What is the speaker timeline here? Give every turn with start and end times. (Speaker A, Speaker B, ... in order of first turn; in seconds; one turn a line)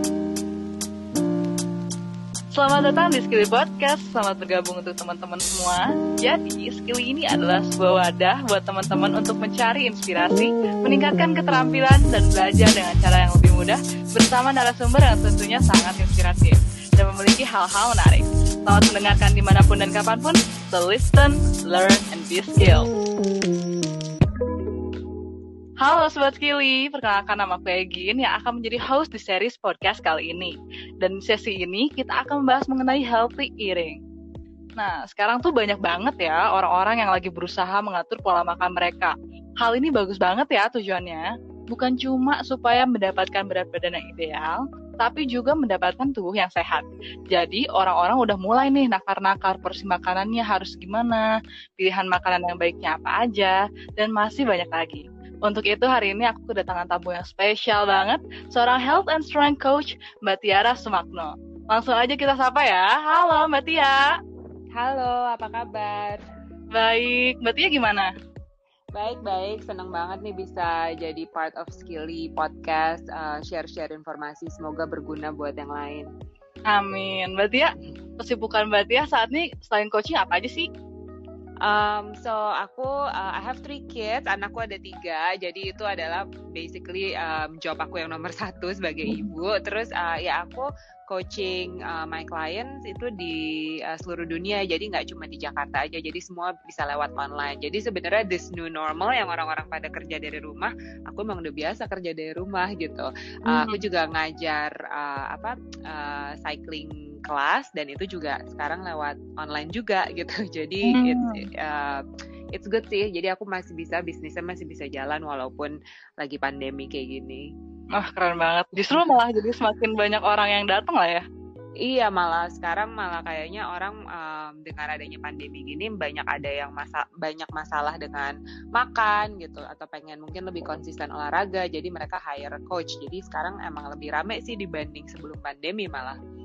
Speaker A: 2.5-22.9
Speaker A: 25.8-34.0
Speaker A: 34.8-64.0
Speaker B: 64.7-66.2
Speaker A: 66.7-68.1
Speaker B: 68.9-76.1
Speaker A: 76.7-80.7
Speaker B: 81.6-112.0
Speaker A: 103.5-103.8
Speaker A: 110.9-111.5
Speaker B: 112.5-117.5
Speaker A: 117.9-121.2
Speaker B: 121.8-136.2